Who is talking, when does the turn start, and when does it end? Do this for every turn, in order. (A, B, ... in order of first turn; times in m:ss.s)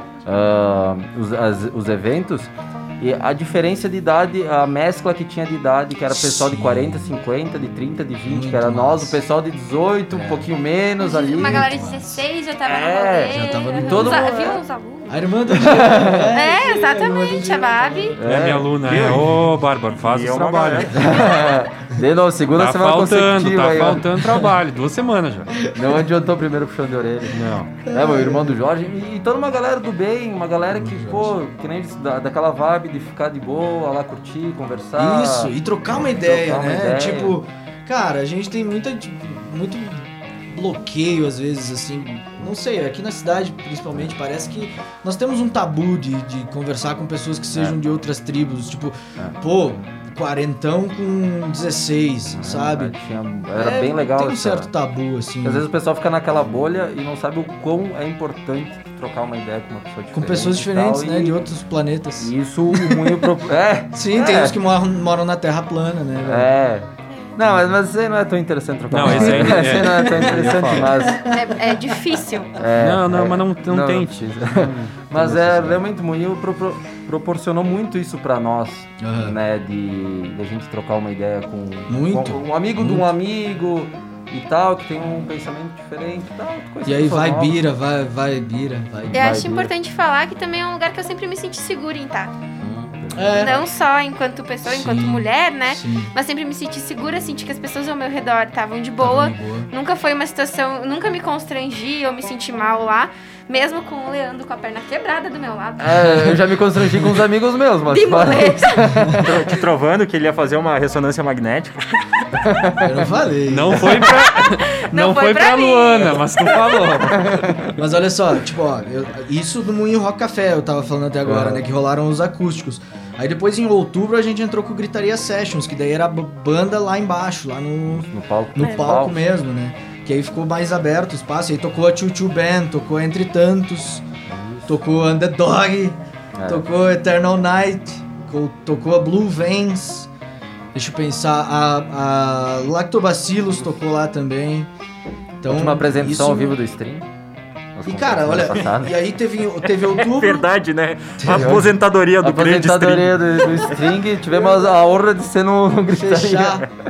0:00.2-0:11.8 A
0:06.1-0:07.2 B
0:08.2-0:09.2 B
0:10.1-0:10.5 B
0:11.0-0:15.2 C
0:11.3-0:12.2 B
0:12.6-0:14.5 A
0:13.3-0:14.6 B
0:15.1-0:18.2 B
0:15.5-0:16.3 A
0:16.3-0:18.2 C
0:18.2-0:19.2 A
0:18.2-0:21.1 D
0:18.9-0:19.2 E
0:19.9-0:21.0 E
0:20.9-0:24.1 A
0:22.5-0:25.6 D
0:24.2-0:24.5 B
0:25.7-0:37.4 A
0:27.3-0:27.7 D
0:27.8-0:28.6 B
0:30.7-0:31.3 B
0:35.0-0:52.9 B
0:52.3-0:54.7 A
0:53.5-0:55.7 B
0:55.4-1:01.4 A
1:00.1-1:03.4 B
1:02.2-1:04.6 A
1:03.9-1:06.5 B
1:06.2-1:11.2 A
1:07.1-1:07.4 C
1:08.9-1:11.0 D
1:09.0-1:11.9 B
1:11.3-1:12.6 C
1:12.6-1:27.6 A
1:12.8-1:15.8 D
1:19.0-1:19.4 B
1:21.9-1:23.1 B
1:26.8-1:29.4 B
1:29.1-1:29.7 A
1:29.1-1:32.3 C
1:32.6-1:33.6 A
1:33.1-1:33.7 B
1:33.4-1:46.3 C
1:34.6-1:36.1 B
1:39.0-1:39.7 B
1:45.8-1:49.4 A
1:47.9-1:49.1 C
1:49.2-1:52.2 E
1:52.4-1:52.8 A
1:52.8-1:54.1 B
1:53.5-1:57.7 D
1:54.1-1:56.9 C
1:57.0-1:57.6 A
1:57.8-2:14.0 B
2:01.2-2:01.6 A
2:07.9-2:09.2 A
2:14.3-2:14.8 A
2:14.7-2:20.1 B
2:16.3-2:16.6 A
2:20.7-2:24.7 B
2:25.4-2:26.6 B
2:25.5-2:27.1 A
2:27.7-2:29.0 A
2:27.8-2:30.5 B
2:29.8-2:33.6 E
2:31.2-2:31.7 B
2:31.3-2:36.7 A
2:35.9-2:36.7 B